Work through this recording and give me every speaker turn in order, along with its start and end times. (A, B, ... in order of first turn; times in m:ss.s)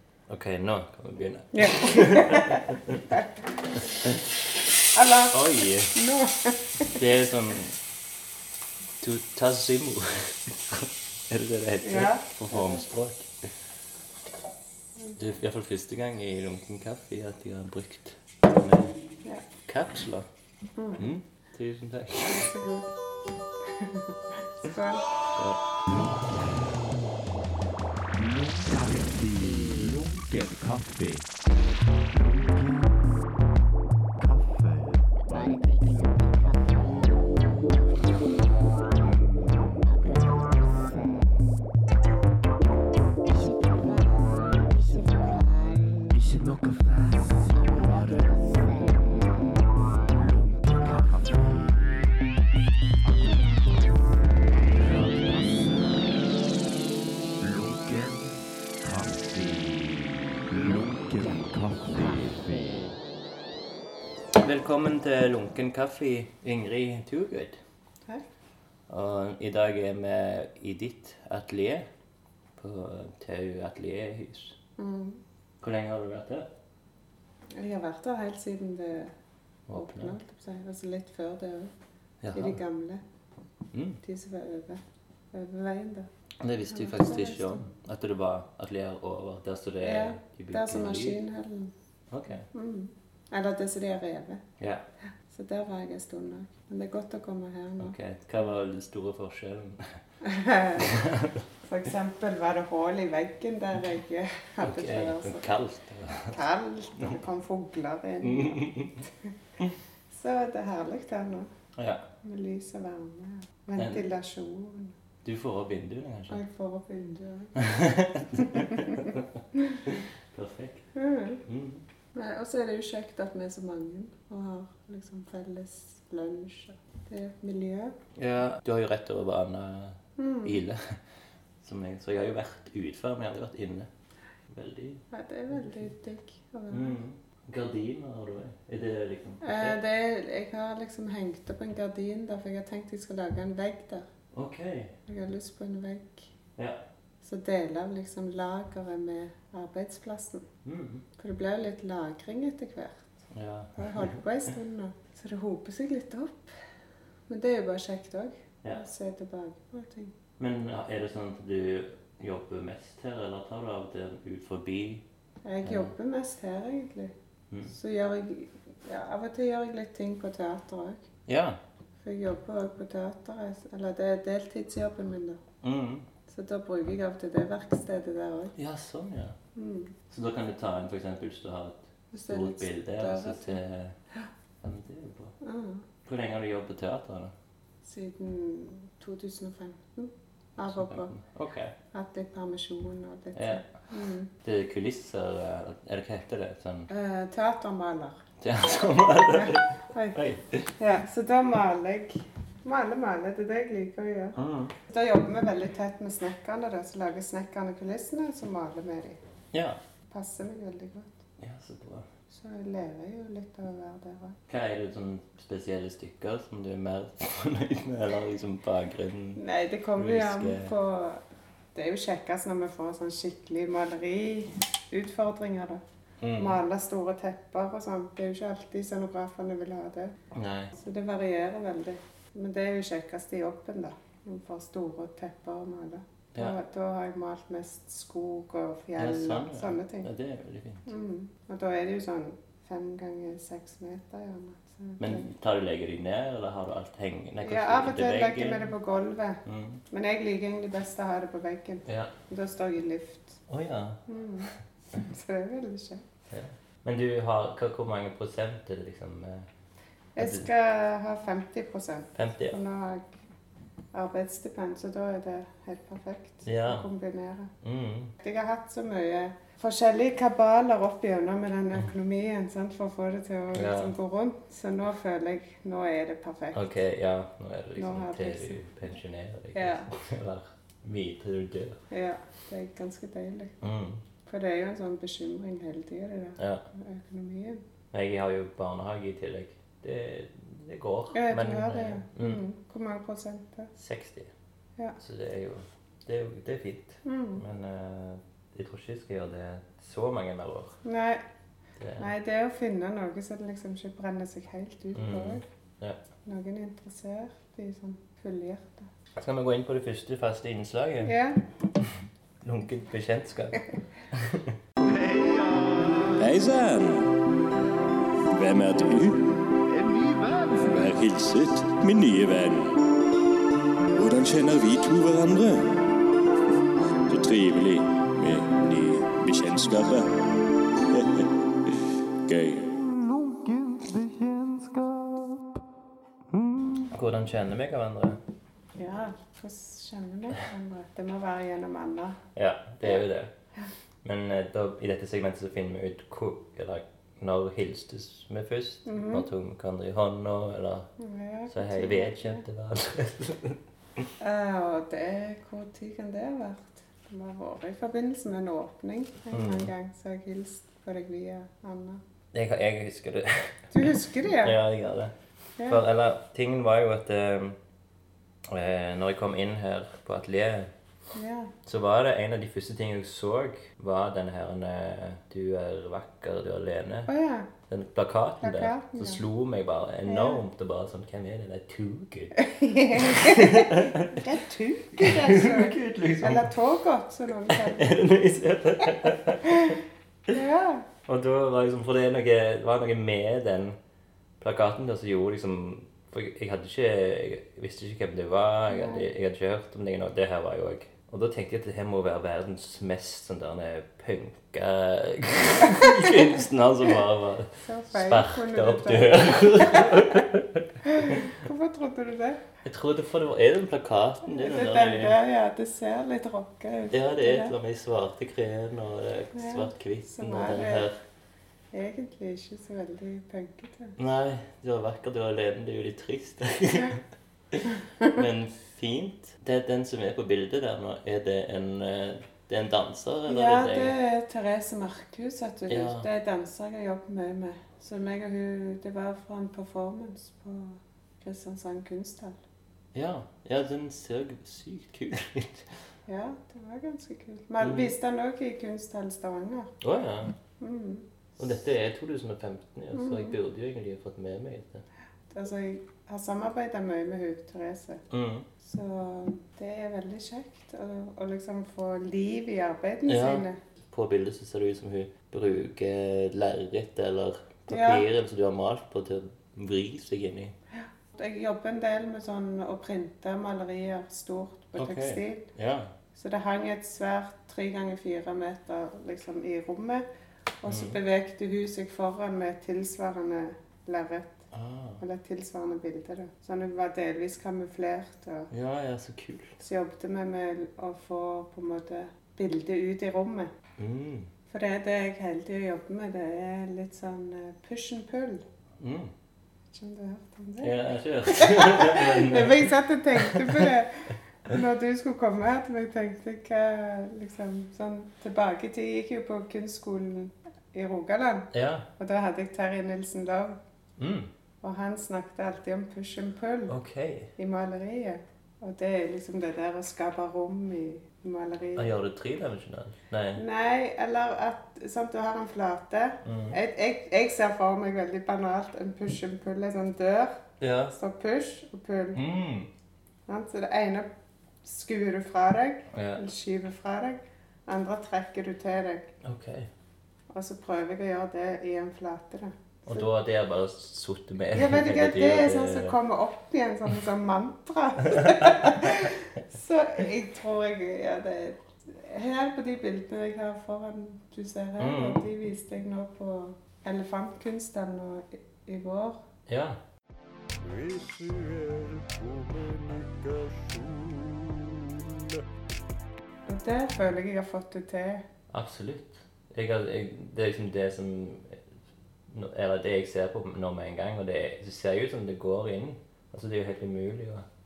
0:00.3-0:03.0 A
0:01.5-0:03.3 B
0:04.9-0:07.0 B
0:05.3-0:06.0 A
0:06.9-0:07.8 A
0:09.0-0:13.3 A
0:11.8-0:12.8 B
0:15.1-0:19.0 A
0:19.7-0:20.3 A
0:20.8-0:21.0 B
0:21.0-0:22.6 A
0:22.3-0:22.9 B
0:23.7-0:25.1 B
0:25.3-0:25.6 A
0:25.9-0:27.3 C
0:28.1-0:31.3 C
0:32.1-0:33.2 C
0:34.2-0:38.4 C
0:39.0-0:41.2 C
0:43.6-0:45.4 C
0:46.1-0:52.2 C
0:53.0-0:56.4 C
0:57.4-1:03.0 C
1:04.4-1:07.6 A
1:08.9-1:11.9 A
1:12.6-1:14.6 A
1:14.8-1:15.2 B
1:15.6-1:16.5 A
1:17.6-1:19.1 B
1:19.7-1:20.2 A
1:19.7-1:21.7 B
1:22.2-1:22.6 A
1:22.3-1:23.0 B
1:23.7-1:24.0 A
1:24.0-1:26.1 B
1:26.4-1:31.2 A
1:26.7-1:27.6 B
1:29.8-1:31.7 B
1:32.1-1:32.5 A
1:32.5-1:34.4 B
1:34.6-1:34.8 A
1:35.3-1:38.0 B
1:37.8-1:40.0 A
1:40.2-1:40.9 B
1:40.8-1:41.4 A
1:41.7-1:45.5 B
1:44.6-1:46.4 A
1:46.3-1:48.7 B
1:48.2-1:49.0 A
1:50.1-1:51.5 B
1:51.8-1:52.0 A
1:52.2-1:55.0 B
1:53.8-1:54.0 A
1:55.2-1:56.4 A
1:56.3-1:57.6 B
1:57.6-2:00.9 A
1:58.4-1:59.1 B
2:00.9-2:01.4 B
2:01.4-2:01.8 A
2:02.1-2:08.0 B
2:08.2-2:11.0 A
2:10.2-2:10.6 B
2:11.6-2:13.9 A
2:14.5-2:15.9 A
2:15.1-2:17.0 B
2:16.7-2:19.8 A
2:19.4-2:24.1 B
2:24.3-2:25.0 A
2:25.1-2:26.3 B
2:27.2-2:30.5 B
2:30.6-2:31.0 A
2:31.2-2:33.1 B
2:33.3-2:34.2 A
2:33.8-2:36.5 B
2:37.3-2:40.1 B
2:40.4-2:45.0 A
2:45.4-2:47.1 B
2:45.6-2:45.9 A
2:47.5-2:47.8 A
2:47.7-2:51.1 B
2:51.3-2:51.6 A
2:52.0-2:55.4 B
2:55.6-2:56.1 A
2:56.3-2:58.6 B
2:58.6-2:59.4 A
2:59.6-2:59.9 B
3:00.1-3:04.0 A
3:02.1-3:03.6 B
3:04.6-3:05.3 A
3:05.4-3:05.8 B
3:06.0-3:07.3 A
3:07.8-3:11.1 B
3:10.6-3:11.8 A
3:11.9-3:14.3 B
3:13.3-3:13.7 A
3:14.4-3:16.9 A
3:16.9-3:18.2 B
3:18.4-3:20.7 A
3:19.3-3:20.2 B
3:20.8-3:24.4 B
3:24.4-3:24.8 A
3:24.9-3:29.2 B
3:29.5-3:29.8 A
3:30.1-3:31.2 B
3:31.4-3:32.1 A
3:32.3-3:34.4 B
3:34.5-3:39.4 A
3:39.4-3:41.2 B
3:40.0-3:40.7 A
3:41.7-3:45.8 B
3:46.2-3:46.6 A
3:46.4-3:50.1 B
3:50.3-3:50.7 A
3:50.8-4:00.1 B
3:59.0-4:00.9 A
4:00.9-4:05.2 B
4:05.0-4:08.7 A
4:07.4-4:13.4 B
4:09.4-4:09.8 A
4:11.9-4:12.1 A
4:13.5-4:14.0 A
4:14.1-4:16.0 B
4:16.3-4:19.5 A
4:20.1-4:23.1 B
4:20.2-4:20.5 A
4:22.1-4:22.6 A
4:23.9-4:27.5 B
4:26.4-4:26.9 A
4:27.6-4:28.1 A
4:28.2-4:36.7 B
4:33.5-4:33.9 A
4:36.5-4:41.8 A
4:37.8-4:38.6 B
4:39.5-4:39.9 B
4:41.9-4:43.6 B
4:43.6-4:44.0 A
4:44.2-4:47.6 B
4:46.4-4:46.6 A
4:47.9-4:52.4 A
4:51.1-4:53.7 B
4:53.8-4:54.3 A
4:55.0-5:00.8 A
4:57.0-4:57.4 B
5:00.8-5:01.2 B
5:01.8-5:02.1 A
5:02.0-5:05.4 B
5:04.9-5:06.0 A
5:06.2-5:08.9 B
5:09.1-5:11.1 A
5:11.0-5:11.4 B
5:12.4-5:14.6 A
5:14.8-5:17.2 D
5:18.3-5:19.2 D
5:19.9-5:22.8 D
5:23.9-5:25.8 D
5:27.1-5:30.2 D
5:30.9-5:31.3 D
5:32.3-5:35.4 D
5:36.9-5:38.2 A
5:38.8-5:42.2 B
5:42.3-5:43.3 A
5:44.0-5:50.9 A
5:48.8-5:49.2 B
5:51.0-5:52.4 B
5:51.5-5:53.6 A
5:54.2-6:02.0 B
5:59.3-5:59.7 A
6:02.3-6:03.6 A
6:03.7-6:04.6 B
6:04.4-6:05.1 A
6:05.6-6:05.8 B
6:05.7-6:07.6 A
6:08.5-6:10.7 A
6:11.1-6:11.5 B
6:11.6-6:17.1 A
6:17.1-6:17.5 B
6:17.7-6:22.4 A
6:18.4-6:19.2 B
6:20.1-6:20.4 B
6:22.4-6:28.0 B
6:22.9-6:24.3 A
6:24.9-6:26.5 A
6:27.5-6:29.8 A
6:29.5-6:29.8 B
6:30.3-6:30.9 B
6:31.1-6:33.8 A
6:34.4-6:51.4 A
6:38.7-6:39.0 B
6:45.8-6:46.3 B
6:47.6-6:50.2 B
6:50.9-6:52.4 B
6:52.6-6:55.2 A
6:54.2-6:57.5 B
6:56.9-7:01.0 A
6:59.3-7:00.9 B
7:01.7-7:03.9 B
7:04.0-7:07.0 A
7:06.7-7:07.0 B
7:07.5-7:13.9 A
7:13.3-7:22.4 B
7:15.7-7:16.1 A
7:22.9-7:25.7 A
7:26.1-7:29.7 B
7:27.6-7:27.9 A
7:29.8-7:30.3 A
7:30.6-7:31.4 B
7:31.4-7:34.8 A
7:32.9-7:33.4 B
7:35.3-7:38.0 B
7:38.1-7:38.5 A
7:38.6-7:43.6 B
7:43.1-7:50.5 A
7:47.7-7:48.0 B
7:50.7-7:55.4 B
7:54.8-7:55.9 A
7:56.1-8:00.0 B
8:00.6-8:04.4 B
8:00.7-8:01.0 A
8:04.5-8:05.0 A
8:05.0-8:08.5 B
8:08.5-8:09.5 A
8:09.6-8:13.5 B
8:13.8-8:14.3 A
8:14.5-8:18.4 B
8:18.8-8:19.1 A
8:19.7-8:20.7 B
8:20.6-8:23.7 A
8:21.3-8:33.6 B
8:31.5-8:31.9 A
8:34.0-8:34.3 A
8:34.6-8:36.8 B
8:36.7-8:37.3 A
8:37.4-8:41.9 B
8:41.8-8:43.4 A
8:43.4-8:50.4 B
8:46.2-8:46.6 A
8:50.6-8:50.9 A
8:50.9-8:52.2 B
8:52.1-8:52.7 A
8:53.3-8:54.1 B
8:54.6-8:59.1 B
8:55.9-8:56.2 A
8:59.2-8:59.7 A
9:00.3-9:03.0 B
9:02.9-9:06.0 A
9:04.5-9:19.2 B
9:08.1-9:09.0 A
9:14.8-9:15.3 A
9:19.5-9:19.8 A
9:20.7-9:24.4 D
9:26.4-9:28.2 B
9:28.5-9:31.6 A
9:32.3-9:37.4 A